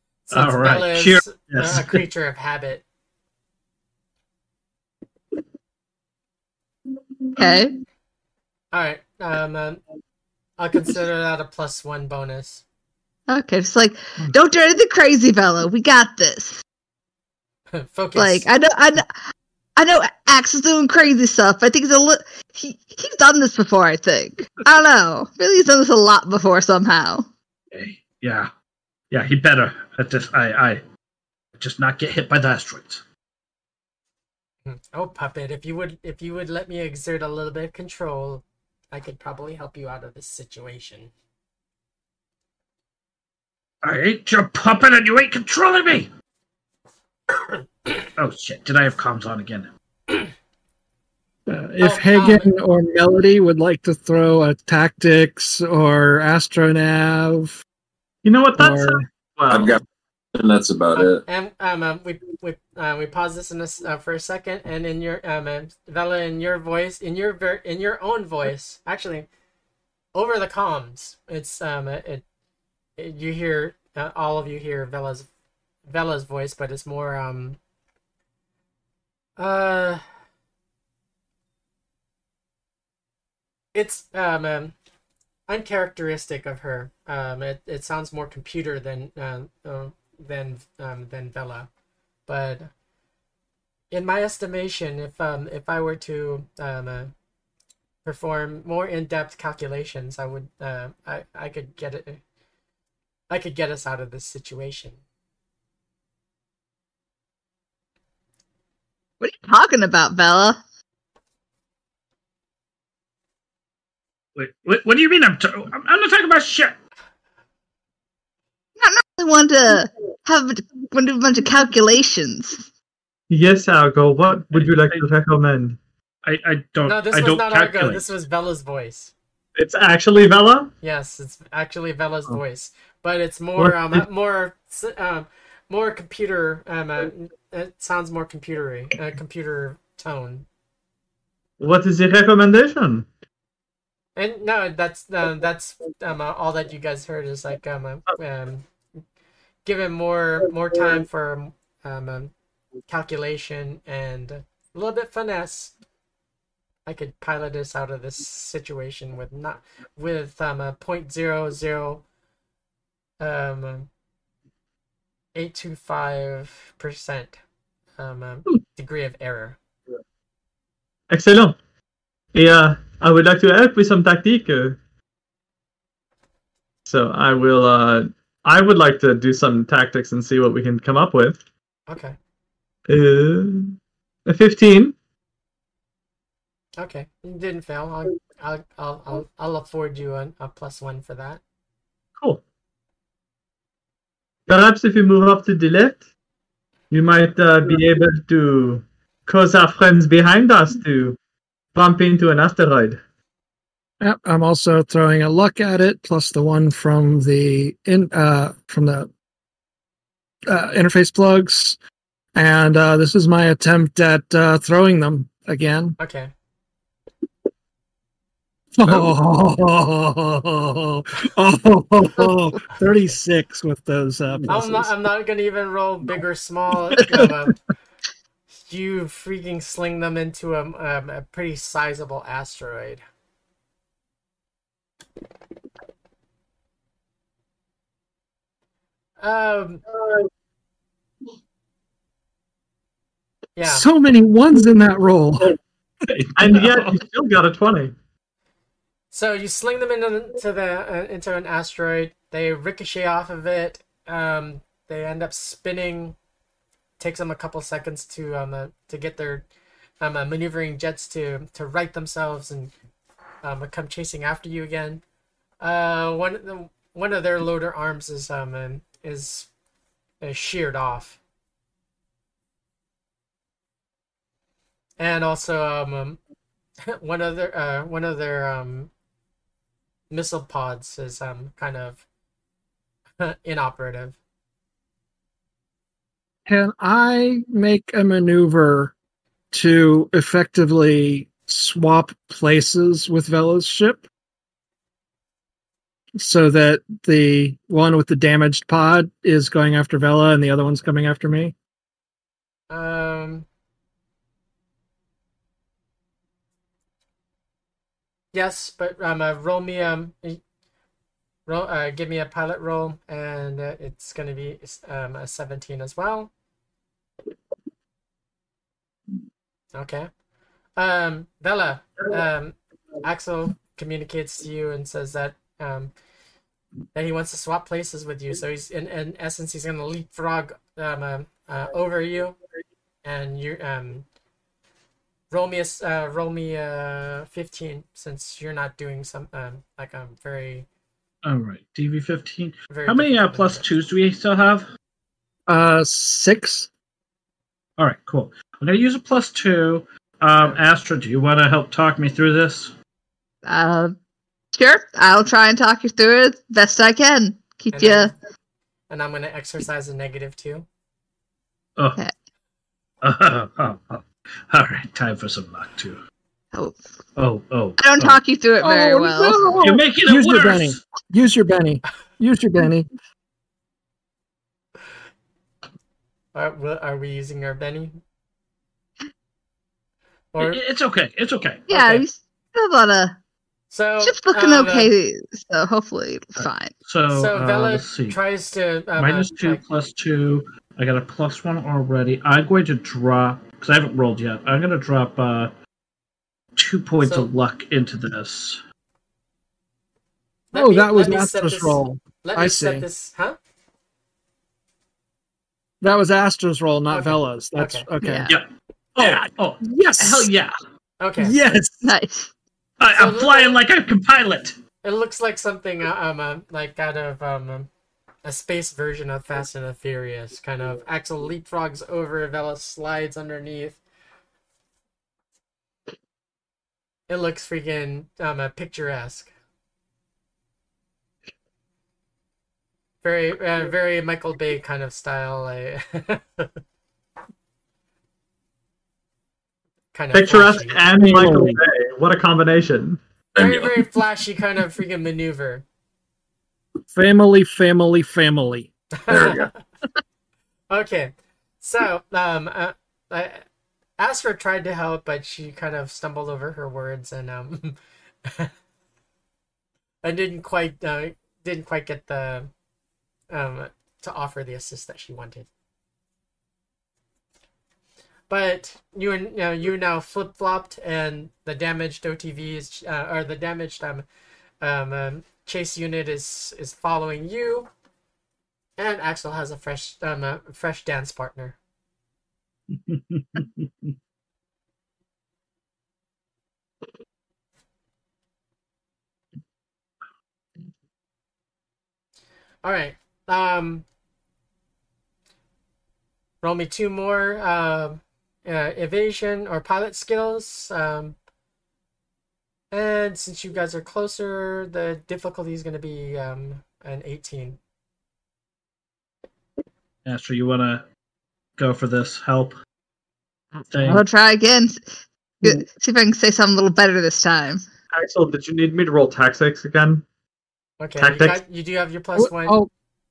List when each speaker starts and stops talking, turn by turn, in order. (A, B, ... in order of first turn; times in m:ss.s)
0:00.3-0:02.8 A
0:00.3-0:02.0 B
0:07.4-0:07.7 C
0:08.7-0:09.8 A
0:10.6-0:12.6 A
0:13.3-0:16.6 C
0:17.7-0:18.5 A
0:18.2-0:27.3 C
0:27.7-0:28.5 B
0:29.1-0:30.8 B
0:31.6-0:33.0 B
0:34.7-0:41.1 A
0:43.8-0:46.1 B
0:48.0-0:49.7 B
0:51.5-0:57.6 D
0:51.8-0:52.5 A
0:58.2-0:59.8 E
0:58.6-0:59.0 D
0:59.5-0:59.8 F
1:00.4-1:01.2 F
1:01.0-1:09.3 A
1:10.2-1:12.2 A
1:13.0-1:15.3 A
1:15.9-1:17.6 A
1:19.4-1:20.0 A
1:23.8-1:24.8 A
1:25.5-1:31.7 A
1:32.3-1:32.7 A
1:33.9-1:37.1 A
1:38.0-1:42.2 A
1:43.3-1:45.0 A
1:49.2-1:50.6 C
1:54.4-1:56.8 B
1:58.8-2:02.7 C
2:03.3-2:05.8 E
2:04.5-2:05.0 B
2:06.2-2:08.1 B
2:06.9-2:09.1 A
2:09.6-2:10.7 E
2:10.8-2:20.5 A
2:13.6-2:14.0 E
2:21.6-2:23.1 E
2:24.2-2:28.7 A
2:29.6-2:32.3 A
2:32.9-2:35.7 A
2:36.9-2:42.0 A
2:43.2-2:43.9 A
2:45.4-2:47.4 A
2:48.0-2:49.6 A
2:51.1-2:51.6 E
2:52.3-2:54.8 E
2:56.9-3:01.4 E
3:01.9-3:02.2 A
3:02.9-3:05.0 E
3:06.8-3:11.4 A
3:14.5-3:16.0 E
3:16.9-3:21.2 E
3:21.8-3:23.0 E
3:24.0-3:29.1 D
3:30.5-3:31.8 D
3:32.4-3:36.0 D
3:36.0-3:36.3 A
3:38.8-3:44.9 D
3:44.5-3:47.6 A
3:47.0-3:47.3 D
3:48.6-3:53.0 A
3:59.2-3:59.8 A
4:03.6-4:03.9 A
4:03.6-4:05.6 D
4:06.1-4:07.0 B
4:06.4-4:08.0 E
4:09.1-4:16.2 A
4:17.0-4:19.5 A
4:20.0-4:22.7 A
4:23.4-4:25.0 A
4:25.6-4:29.5 A
4:30.2-4:31.2 A
4:35.0-4:36.2 A
4:36.8-4:38.9 A
4:40.1-4:42.0 A
4:43.2-4:44.2 A
4:46.5-4:48.9 D
4:49.5-4:54.0 D
4:56.2-5:01.6 D
5:02.7-5:03.5 A
5:08.3-5:10.4 A
5:11.5-5:16.3 A
5:19.7-5:20.1 A
5:20.8-5:25.9 A
5:26.9-5:32.4 A
5:33.0-5:34.0 A
5:35.3-5:40.7 A
5:41.2-5:44.7 B
5:42.7-5:43.7 A
5:45.5-5:46.7 D
5:47.8-5:52.7 B
5:53.4-5:54.0 C
5:54.5-5:58.1 C
5:57.7-5:58.1 A
5:58.9-6:00.7 A
6:03.0-6:06.0 B
6:06.5-6:06.8 C
6:07.2-6:08.2 B
6:07.8-6:09.5 C
6:08.6-6:12.9 D
6:09.6-6:10.8 B
6:16.3-6:18.0 A
6:20.3-6:20.6 A
6:20.4-6:22.0 B
6:21.7-6:23.2 C
6:23.7-6:24.9 A
6:24.0-6:26.7 C
6:26.4-6:28.2 B
6:27.1-6:29.6 A
6:29.0-6:35.5 B
6:36.6-6:38.6 B
6:37.0-6:37.3 A
6:40.5-6:43.4 A
6:40.5-6:42.9 D
6:45.8-6:48.3 D
6:46.9-6:47.9 A
6:48.0-6:48.3 C
6:48.3-6:50.6 B
6:49.0-6:50.3 D
6:51.0-6:51.4 A
6:51.2-6:51.9 D
6:51.8-6:52.3 C
6:52.8-6:54.6 B
6:53.0-6:53.6 A
6:54.8-6:57.7 A
6:58.2-7:03.8 A
7:07.1-7:09.3 A
7:13.0-7:16.5 A
7:19.9-7:20.9 A
7:20.1-7:23.0 E
7:20.9-7:21.6 D
7:23.4-7:23.8 F
7:23.4-7:25.6 A
7:26.9-7:29.2 D
7:29.0-7:29.5 A
7:29.1-7:29.5 F
7:30.7-7:33.4 A
7:34.0-7:38.5 A
7:40.0-7:42.5 A
7:43.3-7:45.5 A
7:48.3-7:54.1 A
7:54.6-7:57.7 A
7:58.8-8:01.6 A
8:02.7-8:03.7 B
8:12.6-8:13.9 A
8:16.4-8:21.2 A
8:22.7-8:27.6 A
8:30.0-8:30.9 B
8:31.6-8:32.6 B
8:33.6-8:37.6 C
8:33.7-8:34.0 B
8:37.9-8:40.0 E
8:40.8-8:42.6 A
8:41.0-8:41.4 E
8:42.2-8:42.7 D